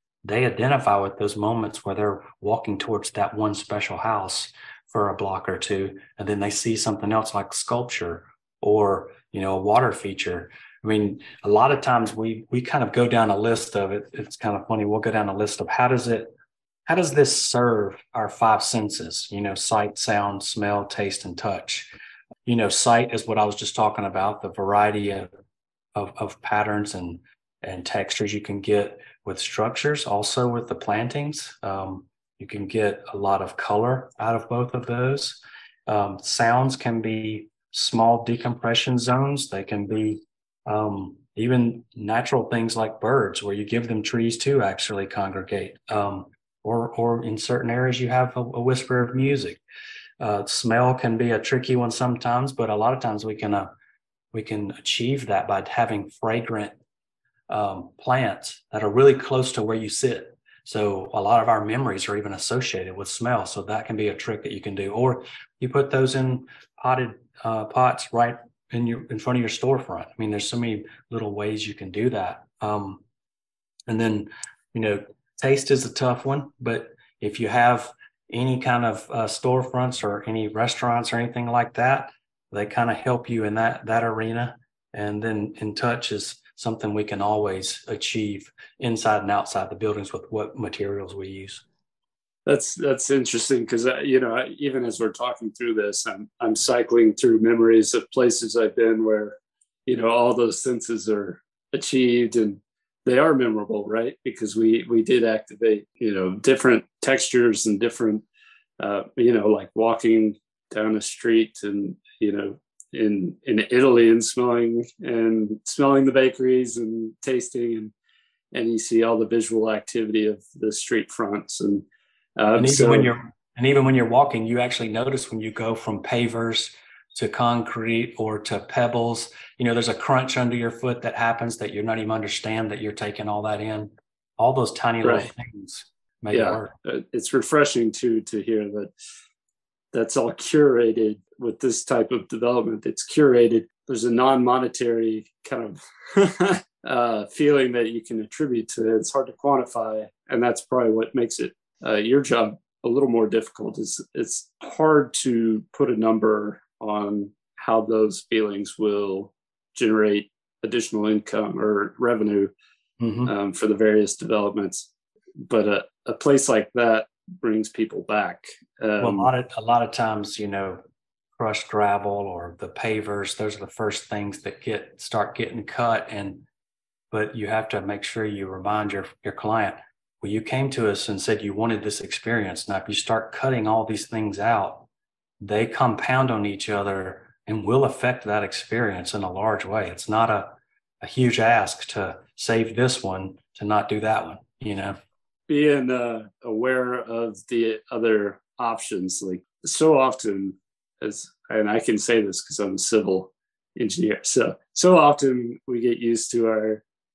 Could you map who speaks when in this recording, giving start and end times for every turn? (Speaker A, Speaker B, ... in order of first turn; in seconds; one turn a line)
Speaker A: 0.2-16.4
Speaker A: 16.9-21.9
Speaker A: 22.4-25.3
Speaker A: 25.9-49.6
Speaker A: 50.2-53.7
Speaker A: 54.3-56.8
Speaker A: 57.5-73.0
Speaker A: 73.9-91.6
Speaker B: 92.5-108.2
Speaker B: 108.8-117.9
Speaker B: 118.5-121.9
Speaker B: 122.4-123.1
Speaker A: 122.6-136.7
Speaker B: 135.0-135.3
Speaker B: 136.3-138.9
Speaker B: 139.9-162.5
Speaker A: 163.0-163.3
Speaker B: 163.2-164.9
Speaker B: 165.4-169.3
Speaker A: 169.0-170.8
Speaker A: 171.4-176.4
Speaker A: 177.1-184.9
Speaker A: 185.4-195.0
Speaker B: 195.5-206.8